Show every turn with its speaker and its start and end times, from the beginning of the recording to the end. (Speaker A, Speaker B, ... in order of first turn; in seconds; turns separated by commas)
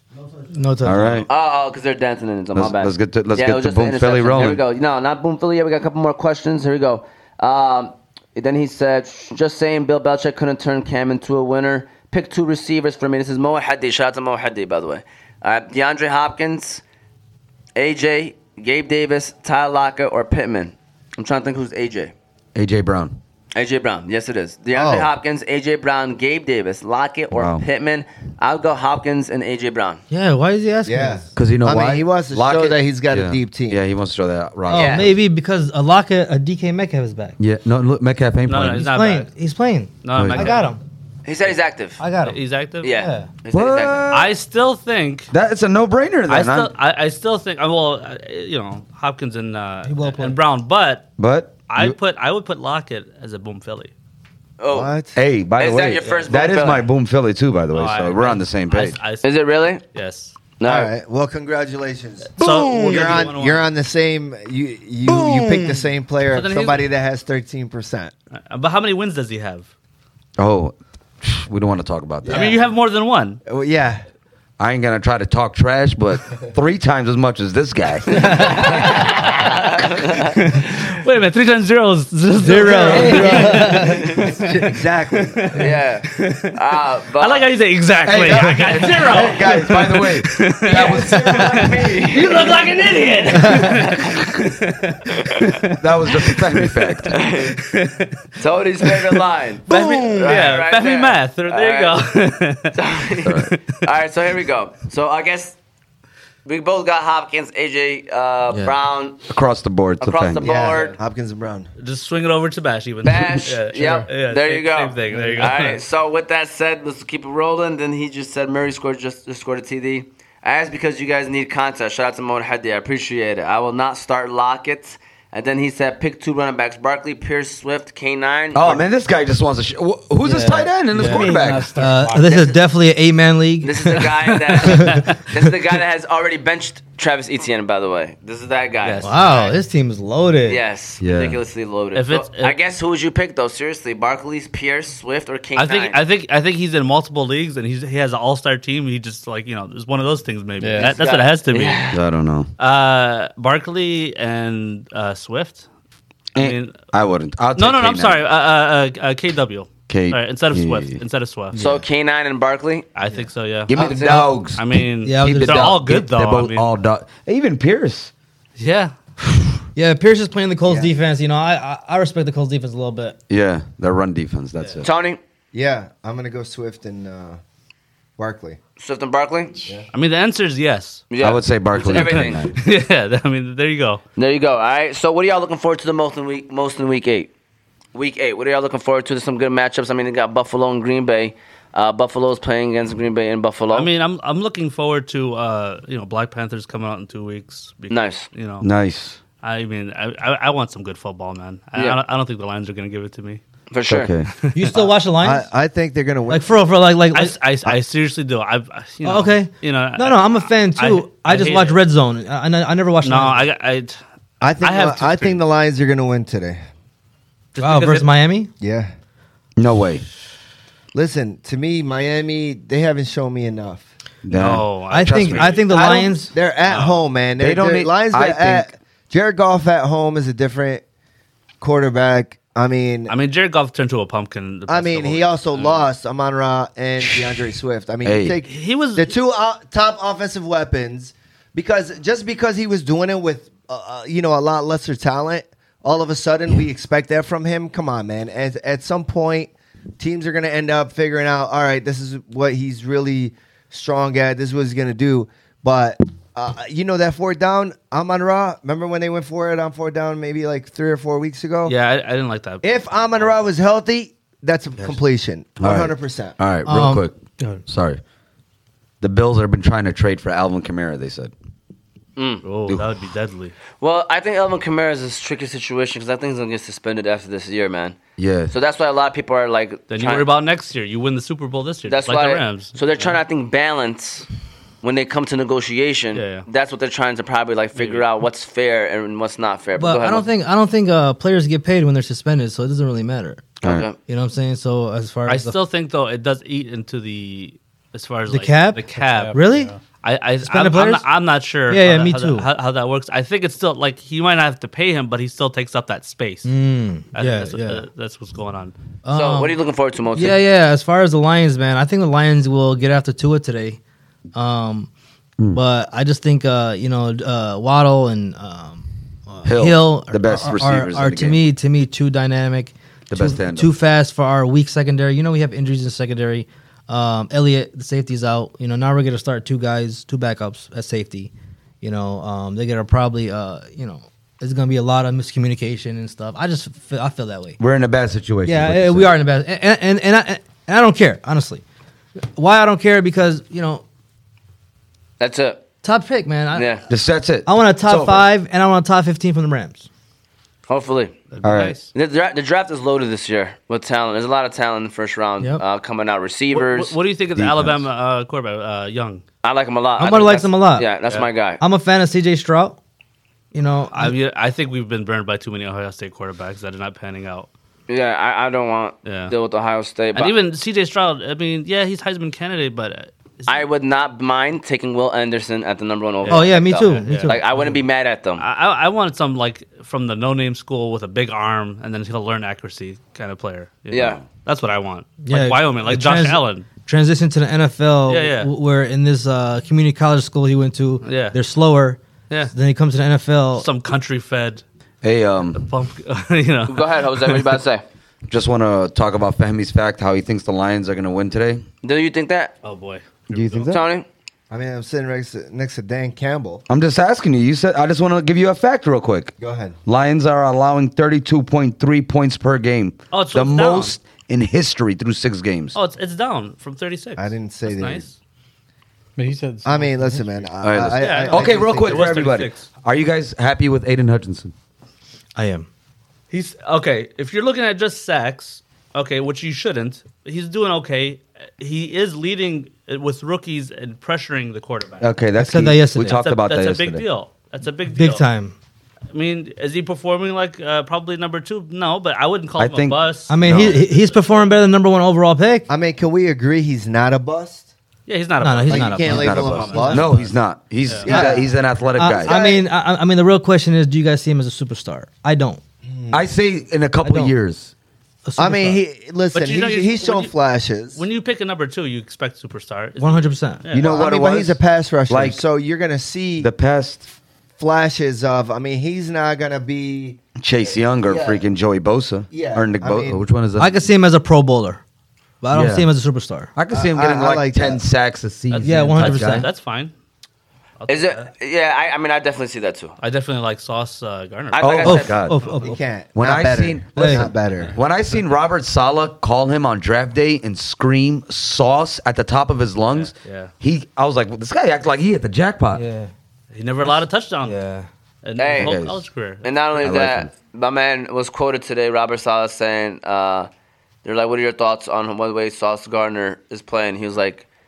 Speaker A: 0.5-1.3, Speaker B: 0.8-1.3, Speaker C: 1.3-16.8, Speaker B: 2.5-4.6, Speaker C: 17.8-22.1, Speaker B: 22.5-23.2, Speaker C: 23.5-30.0, Speaker D: 24.7-25.1, Speaker B: 27.3-27.6, Speaker A: 30.1-31.2, Speaker D: 30.8-33.8, Speaker B: 31.4-35.1, Speaker A: 34.7-37.4, Speaker C: 34.7-35.1, Speaker B: 37.4-38.9, Speaker E: 38.5-39.3, Speaker A: 38.8-40.8, Speaker E: 40.0-40.7, Speaker B: 40.1-40.5, Speaker C: 41.2-42.0, Speaker A: 42.0-43.3, Speaker E: 42.2-42.9, Speaker C: 42.8-44.1, Speaker B: 43.5-44.3, Speaker E: 44.1-45.3, Speaker B: 45.3-46.7, Speaker E: 46.3-51.1, Speaker A: 49.9-50.4, Speaker B: 51.2-52.0, Speaker E: 51.7-53.9, Speaker C: 54.6-54.9, Speaker D: 54.7-55.1, Speaker B: 55.1-59.0, Speaker C: 55.6-56.9, Speaker E: 57.7-59.4, Speaker C: 59.2-59.8, Speaker E: 59.9-60.3, Speaker C: 60.6-60.9, Speaker D: 60.6-68.1, Speaker E: 62.3-63.6, Speaker B: 65.1-65.5, Speaker E: 66.3-66.9, Speaker E: 68.4-69.7, Speaker B: 70.4-72.5, Speaker D: 72.2-72.7, Speaker E: 72.3-73.4, Speaker D: 73.5-74.0, Speaker B: 74.6-79.0, Speaker C: 78.3-80.3, Speaker E: 78.5-79.6, Speaker E: 80.3-86.6, Speaker A: 82.4-84.0, Speaker D: 82.6-85.7, Speaker B: 82.8-83.4, Speaker C: 85.5-87.5, Speaker E: 87.2-103.8, Speaker B: 88.0-91.8, Speaker C: 90.7-92.7, Speaker A: 93.3-93.7, Speaker B: 95.7-97.2, Speaker C: 97.1-97.6, Speaker C: 98.4-102.1, Speaker C: 102.8-105.5, Speaker B: 103.2-103.5, Speaker C: 106.5-109.2, Speaker B: 109.3-110.5, Speaker C: 110.0-111.0, Speaker D: 110.4-111.7, Speaker E: 111.8-115.8, Speaker C: 113.0-128.8, Speaker A: 115.1-115.4, Speaker B: 128.5-131.8, Speaker A: 130.2-135.1, Speaker F: 130.9-132.6, Speaker C: 133.6-139.2, Speaker E: 134.5-135.2, Speaker E: 138.8-139.5, Speaker A: 139.0-140.6, Speaker C: 140.5-146.0, Speaker B: 141.0-141.4, Speaker E: 141.9-142.6, Speaker E: 145.6-151.9, Speaker F: 150.6-151.0, Speaker C: 150.7-152.0, Speaker B: 151.9-152.5, Speaker E: 152.6-155.7, Speaker E: 156.3-156.8, Speaker B: 156.3-158.2, Speaker E: 157.6-161.6, Speaker B: 159.9-161.0, Speaker A: 161.5-161.8, Speaker C: 161.6-162.9, Speaker E: 162.9-166.7, Speaker B: 163.7-168.1, Speaker C: 163.7-164.3, Speaker A: 165.0-165.8, Speaker E: 168.6-169.5, Speaker A: 169.7-173.2, Speaker D: 170.7-170.9, Speaker B: 173.3-174.9, Speaker C: 174.8-175.2, Speaker D: 175.5-177.4, Speaker D: 178.2-178.6, Speaker C: 178.8-179.7, Speaker E: 179.9-181.1, Speaker C: 181.1-182.5, Speaker B: 181.2-182.6, Speaker E: 181.9-184.0, Speaker C: 184.2-187.3, Speaker C: 187.9-193.9, Speaker E: 193.7-198.7, Speaker C: 197.9-198.3, Speaker B: 198.6-199.2, Speaker E: 199.4-203.4, Speaker C: 203.7-204.1, Speaker B: 203.9-204.3, Speaker E: 204.4-204.8, Speaker A: 204.5-205.5, Speaker D: 205.2-206.5, Speaker A: 206.3-207.4, Speaker E: 207.1-211.8, Speaker A: 209.0-213.4, Speaker E: 213.0-214.0, Speaker D: 214.4-216.6, Speaker E: 214.6-215.4, Speaker E: 217.5-218.1, Speaker A: 217.6-218.5, Speaker D: 218.6-218.9, Speaker B: 219.6-220.0, Speaker D: 220.9-223.9, Speaker B: 224.2-225.6, Speaker E: 224.3-226.1, Speaker A: 224.9-226.3, Speaker D: 225.7-230.8, Speaker E: 226.7-227.0, Speaker B: 227.4-228.7, Speaker D: 231.6-233.1, Speaker E: 233.1-235.8, Speaker D: 234.7-261.8, Speaker B: 238.0-238.4, Speaker E: 238.4-239.1, Speaker E: 261.6-263.3, Speaker D: 262.6-266.4, Speaker B: 265.6-267.1, Speaker A: 266.6-267.6, Speaker B: 267.7-268.0, Speaker B: 269.0-271.3, Speaker C: 272.2-272.4, Speaker E: 272.4-273.5, Speaker C: 273.8-278.0, Speaker B: 278.2-278.5, Speaker C: 278.5-280.2, Speaker E: 279.9-283.1, Speaker C: 281.9-284.3, Speaker C: 284.8-290.3, Speaker E: 286.1-286.4, Speaker E: 287.8-288.1, Speaker A: 289.8-293.4, Speaker C: 293.6-293.9, Speaker B: 293.6-293.9, Speaker A: 294.1-295.6, Speaker E: 295.3-299.4, Speaker A: 298.3-299.7, Speaker F: 298.9-299.8, Speaker E: 300.0-306.5, Speaker A: 300.4-301.1, Speaker A: 301.7-302.5, Speaker A: 306.4-307.8, Speaker E: 307.1-308.7, Speaker A: 309.0-309.6, Speaker C: 309.1-310.4, Speaker A: 310.1-313.8, Speaker A: 314.3-314.9, Speaker A: 315.5-331.3, Speaker B: 319.4-321.4, Speaker B: 323.1-323.7, Speaker A: 331.8-337.6, Speaker B: 337.6-339.1, Speaker A: 338.4-341.6, Speaker A: 342.3-343.8, Speaker C: 345.2-345.6, Speaker A: 345.8-346.8, Speaker C: 346.5-346.8, Speaker B: 346.9-348.2, Speaker A: 347.4-349.9, Speaker C: 350.7-351.2, Speaker E: 351.3-351.9, Speaker B: 351.4-351.8, Speaker C: 351.9-356.9, Speaker E: 356.5-359.2, Speaker B: 357.3-357.9, Speaker C: 359.4-361.6, Speaker A: 360.0-360.9, Speaker A: 361.6-362.8, Speaker A: 363.5-364.1, Speaker E: 363.9-367.5, Speaker C: 367.9-370.4, Speaker E: 369.0-369.3, Speaker E: 370.1-373.6, Speaker C: 373.5-378.4, Speaker E: 376.2-377.4, Speaker A: 376.3-377.4, Speaker E: 378.4-386.7, Speaker C: 383.9-384.2, Speaker A: 385.2-393.7, Speaker E: 388.1-388.5, Speaker E: 391.0-391.4, Speaker E: 393.6-394.6, Speaker B: 395.0-395.6, Speaker E: 395.5-397.4, Speaker C: 396.7-397.8, Speaker B: 398.3-401.6, Speaker C: 401.8-402.5, Speaker E: 402.6-403.7, Speaker B: 403.3-403.8, Speaker C: 403.6-404.1, Speaker D: 404.5-406.6, Speaker B: 406.7-409.3, Speaker D: 409.4-409.8, Speaker B: 409.9-415.8, Speaker E: 413.1-413.9, Speaker E: 415.7-418.1, Speaker D: 417.2-418.1, Speaker F: 419.2-420.5, Speaker D: 419.6-422.2, Speaker B: 420.6-424.5, Speaker E: 420.9-422.7, Speaker A: 425.4-425.7, Speaker E: 426.3-435.1, Speaker B: 435.0-437.0, Speaker A: 435.4-436.2, Speaker E: 436.1-438.2, Speaker A: 437.9-438.5, Speaker E: 439.1-444.5, Speaker B: 442.6-443.8, Speaker A: 443.3-445.7, Speaker D: 445.7-447.7, Speaker E: 448.1-450.3, Speaker A: 448.4-450.2, Speaker D: 448.7-450.3, Speaker B: 449.0-452.4, Speaker D: 451.0-451.5, Speaker A: 451.1-455.6, Speaker D: 452.2-452.6, Speaker D: 455.9-456.3, Speaker B: 456.1-457.7, Speaker A: 457.0-457.3, Speaker A: 458.2-458.8, Speaker D: 458.4-461.1, Speaker E: 459.3-460.3, Speaker E: 460.9-463.9, Speaker A: 463.0-463.6, Speaker B: 463.7-465.4, Speaker D: 463.8-466.5, Speaker B: 466.4-467.1, Speaker D: 467.6-470.2, Speaker B: 470.4-473.7, Speaker D: 471.0-471.4, Speaker D: 472.3-473.2, Speaker A: 473.6-474.8, Speaker A: 475.4-476.5, Speaker B: 475.5-475.9, Speaker B: 476.5-479.5, Speaker D: 476.7-477.8, Speaker E: 478.5-479.9, Speaker A: 478.6-479.5, Speaker E: 480.8-481.3, Speaker C: 480.9-482.9, Speaker E: 483.0-485.6, Speaker C: 484.5-485.2, Speaker B: 484.6-485.4, Speaker A: 484.8-485.8, Speaker D: 485.6-487.8, Speaker B: 486.1-495.8, Speaker A: 486.9-487.3, Speaker E: 492.9-493.5, Speaker A: 495.7-496.1, Speaker E: 496.5-497.6, Speaker A: 496.8-497.9, Speaker E: 498.2-500.0, Speaker C: 498.4-498.8, Speaker B: 498.5-499.0, Speaker C: 499.4-503.5, Speaker B: 499.8-500.3, Speaker C: 504.0-507.4